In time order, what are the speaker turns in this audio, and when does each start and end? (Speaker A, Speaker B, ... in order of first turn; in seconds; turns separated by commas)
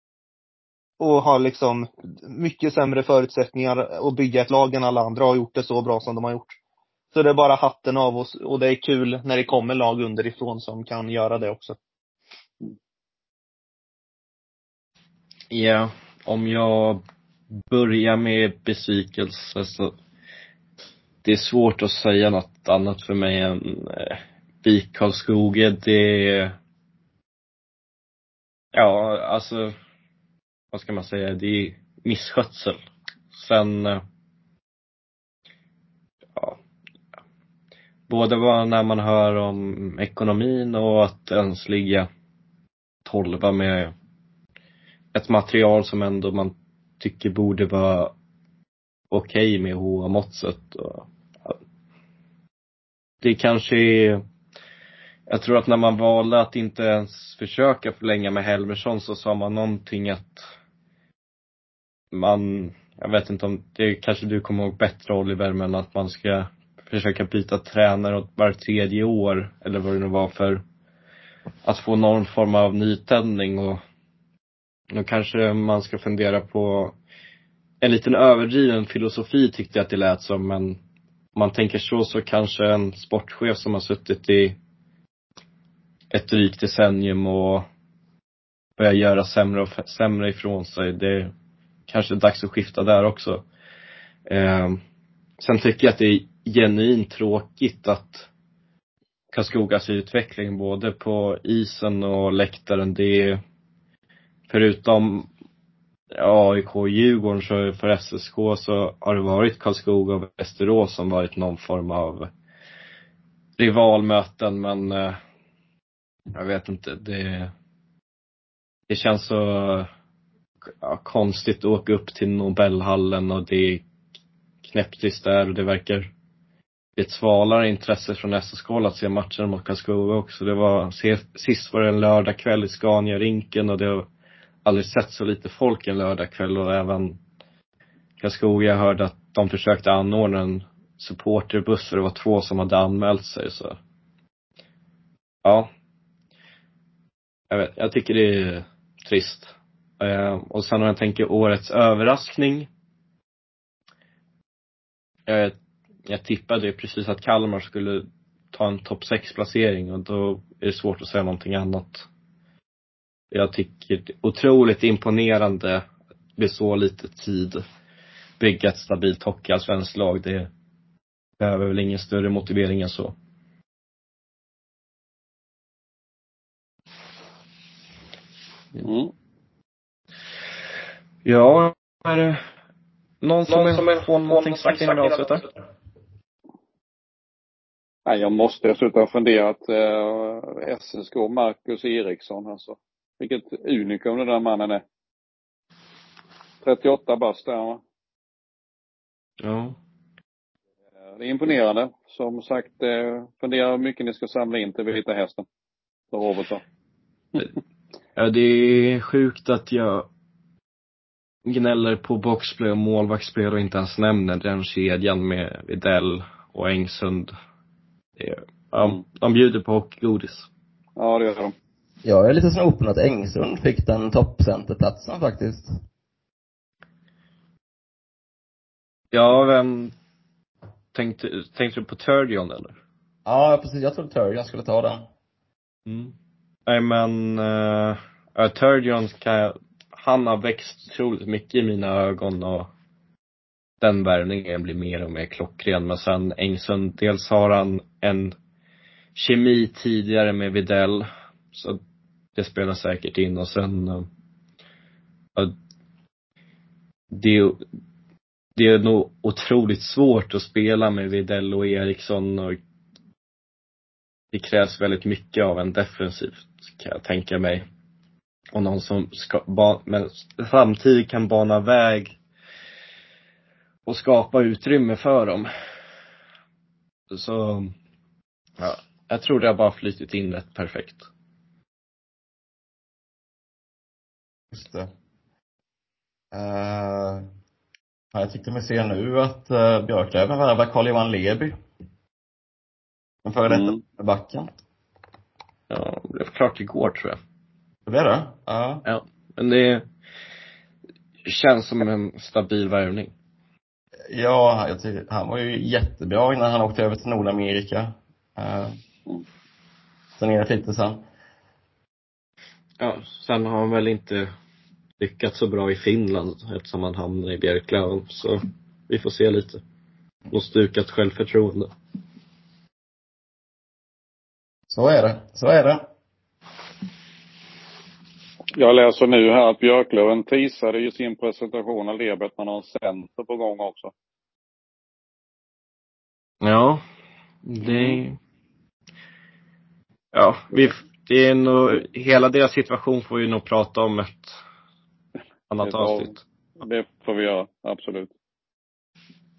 Speaker A: 1.0-6.6, Speaker A: 7.1-11.8, Speaker B: 15.5-17.0, Speaker B: 17.6-19.9, Speaker B: 21.2-26.6, Speaker B: 28.7-29.7, Speaker B: 30.7-32.8, Speaker B: 33.3-34.0, Speaker B: 38.1-42.1, Speaker B: 43.0-43.9, Speaker B: 45.1-48.1, Speaker B: 49.1-51.6, Speaker B: 53.2-54.2, Speaker B: 55.3-60.5, Speaker B: 62.1-70.6, Speaker B: 71.7-73.8, Speaker B: 74.9-77.0, Speaker B: 77.8-80.8, Speaker B: 81.3-84.6, Speaker B: 86.1-87.7, Speaker B: 88.8-91.3, Speaker B: 91.9-93.4, Speaker B: 94.3-94.8, Speaker B: 95.4-98.3, Speaker B: 99.3-103.4, Speaker B: 104.5-105.3, Speaker B: 106.1-112.3, Speaker B: 113.6-115.2, Speaker B: 116.3-117.5, Speaker B: 118.9-119.9, Speaker B: 120.7-123.8, Speaker B: 124.7-126.1, Speaker B: 127.0-134.1, Speaker B: 134.7-137.2, Speaker B: 138.2-143.8, Speaker B: 145.4-145.7, Speaker B: 147.5-152.7, Speaker B: 155.3-155.6, Speaker B: 156.1-162.1, Speaker B: 163.3-165.8, Speaker B: 166.4-167.6, Speaker B: 168.4-170.5, Speaker B: 171.4-173.1, Speaker C: 178.8-179.1, Speaker B: 181.2-182.4, Speaker B: 183.2-185.4, Speaker C: 188.1-194.8, Speaker C: 196.6-197.8, Speaker B: 199.4-199.8, Speaker C: 201.1-205.5, Speaker C: 206.1-206.6, Speaker B: 208.2-210.1, Speaker B: 211.5-217.3, Speaker B: 218.2-220.5, Speaker C: 221.0-221.6, Speaker D: 222.0-225.7, Speaker B: 229.1-229.9, Speaker B: 230.9-232.8, Speaker D: 233.3-235.1, Speaker B: 235.9-236.1, Speaker B: 236.7-242.7, Speaker B: 243.8-248.3, Speaker B: 249.2-251.8, Speaker B: 252.4-254.1, Speaker B: 257.1-257.6, Speaker B: 258.6-262.6, Speaker B: 264.3-267.6, Speaker B: 268.5-272.2, Speaker B: 273.9-275.5, Speaker B: 277.1-277.8, Speaker B: 278.6-281.1, Speaker D: 284.5-284.9, Speaker D: 286.3-287.3, Speaker D: 288.1-291.6, Speaker D: 293.2-294.5, Speaker C: 293.5-293.8, Speaker B: 295.7-297.2, Speaker D: 297.9-298.9, Speaker B: 298.9-299.9, Speaker B: 301.3-303.1, Speaker D: 304.1-308.8, Speaker D: 310.2-311.0, Speaker B: 312.8-314.3, Speaker B: 315.0-319.6, Speaker B: 320.3-321.7, Speaker D: 324.7-325.9, Speaker C: 328.5-333.9, Speaker B: 336.4-336.8, Speaker B: 337.4-338.2, Speaker C: 337.6-338.0, Speaker B: 340.1-344.4, Speaker B: 345.5-346.2, Speaker C: 345.6-348.1